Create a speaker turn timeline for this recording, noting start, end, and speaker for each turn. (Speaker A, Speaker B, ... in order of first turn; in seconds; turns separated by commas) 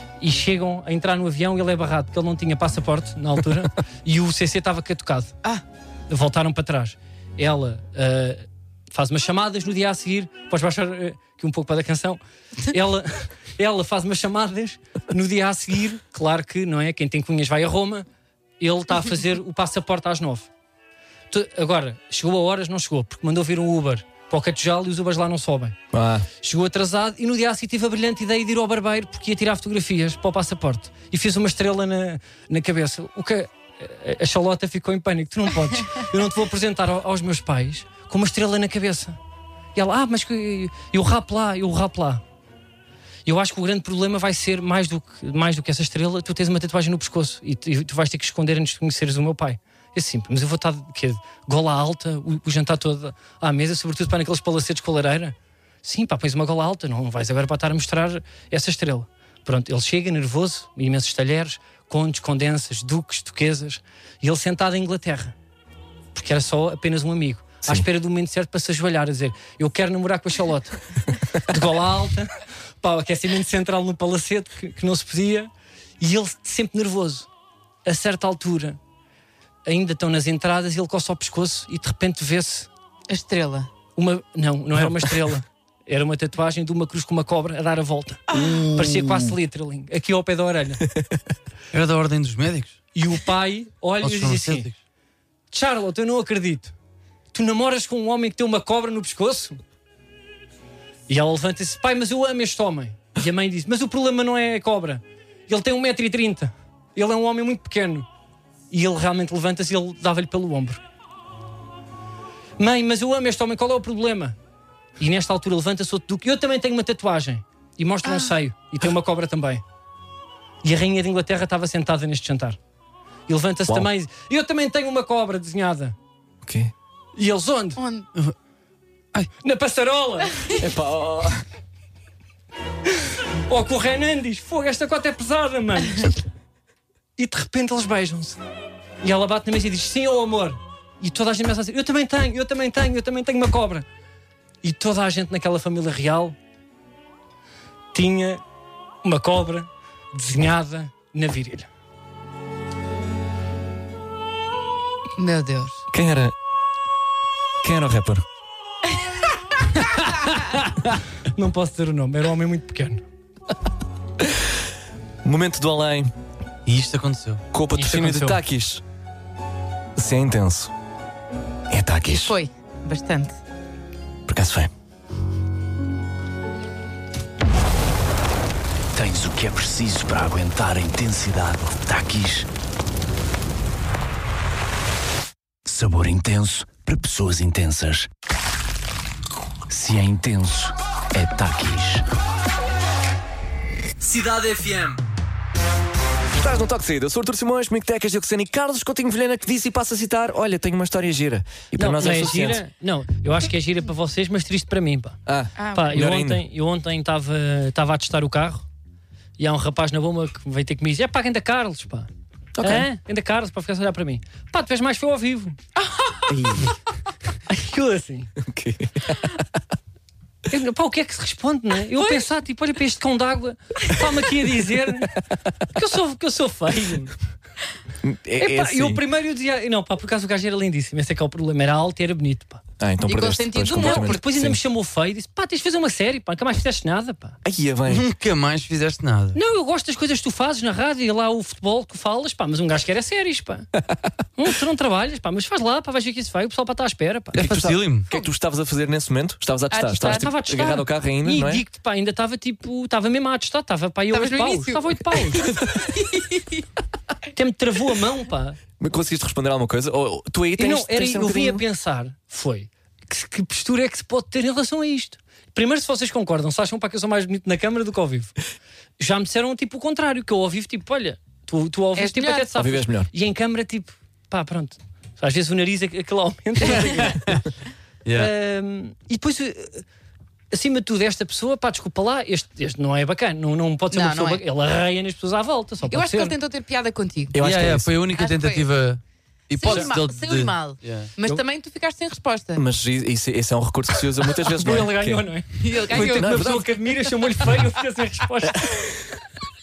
Speaker A: 0.2-5.3, Speaker A: 6.1-18.1, Speaker A: 18.6-20.5, Speaker A: 21.3-25.8, Speaker B: 25.9-26.3, Speaker A: 26.4-39.2, Speaker A: 39.7-42.2, Speaker A: 43.2-65.3, Speaker A: 66.1-77.3, Speaker A: 77.8-78.8, Speaker A: 79.7-82.7, Speaker C: 83.1-83.7, Speaker A: 84.0-90.9, Speaker C: 88.3-89.3, Speaker D: 91.7-92.8, Speaker A: 92.9-94.7, Speaker D: 94.0-94.7, Speaker A: 95.5-96.7, Speaker A: 97.3-99.6, Speaker A: 101.1-108.1, Speaker A: 108.7-110.8, Speaker A: 112.6-114.3, Speaker A: 115.0-119.6, Speaker C: 118.0-118.3, Speaker A: 120.6-122.6, Speaker A: 123.3-126.0, Speaker B: 126.4-126.7, Speaker A: 127.2-127.8, Speaker C: 127.8-128.1, Speaker A: 129.4-130.5, Speaker B: 130.6-131.4, Speaker A: 133.5-136.1, Speaker A: 137.2-138.4, Speaker A: 139.0-143.9, Speaker A: 144.6-146.4, Speaker A: 147.9-148.4, Speaker A: 149.0-151.7, Speaker C: 155.2-155.8, Speaker B: 155.9-156.3, Speaker B: 157.6-158.2, Speaker A: 161.3-163.0, Speaker B: 165.2-166.1, Speaker D: 166.7-167.4, Speaker B: 167.5-168.8, Speaker A: 167.7-168.4, Speaker B: 169.9-170.7, Speaker B: 171.7-172.3, Speaker C: 172.1-173.4, Speaker B: 174.3-174.7, Speaker E: 178.9-182.5, Speaker E: 185.6-188.1, Speaker E: 189.7-192.0, Speaker E: 194.0-195.0, Speaker B: 196.3-202.6, Speaker A: 201.8-205.2, Speaker B: 205.2-206.4, Speaker C: 205.6-205.9, Speaker A: 205.7-208.6, Speaker A: 209.4-212.1, Speaker B: 212.5-212.9, Speaker A: 212.6-215.6, Speaker C: 215.8-216.6, Speaker B: 216.3-216.7, Speaker A: 217.5-218.3, Speaker B: 218.4-219.4, Speaker A: 220.5-227.1, Speaker B: 228.0-229.0, Speaker A: 228.4-232.6, Speaker B: 232.8-234.6, Speaker C: 233.1-234.2, Speaker A: 233.8-237.4, Speaker B: 237.4-238.1, Speaker D: 237.9-239.4, Speaker A: 239.3-243.7, Speaker A: 244.4-247.4, Speaker B: 247.3-251.6, Speaker D: 247.3-248.1, Speaker C: 249.7-250.3, Speaker A: 250.0-255.6, Speaker C: 254.1-256.6, Speaker A: 257.3-258.6, Speaker B: 258.8-261.6, Speaker A: 260.6-268.3, Speaker A: 269.0-277.4, Speaker C: 271.9-272.5, Speaker B: 272.5-273.1, Speaker D: 277.0-277.4, Speaker D: 278.0-278.3, Speaker A: 278.1-279.8, Speaker A: 280.5-286.3, Speaker C: 283.9-284.4, Speaker C: 285.9-287.4, Speaker B: 287.3-287.9, Speaker D: 287.4-291.1, Speaker C: 288.1-288.6, Speaker C: 289.6-292.6, Speaker B: 292.5-295.3, Speaker A: 294.5-298.9, Speaker C: 295.6-296.4, Speaker B: 295.9-296.7, Speaker B: 298.4-299.1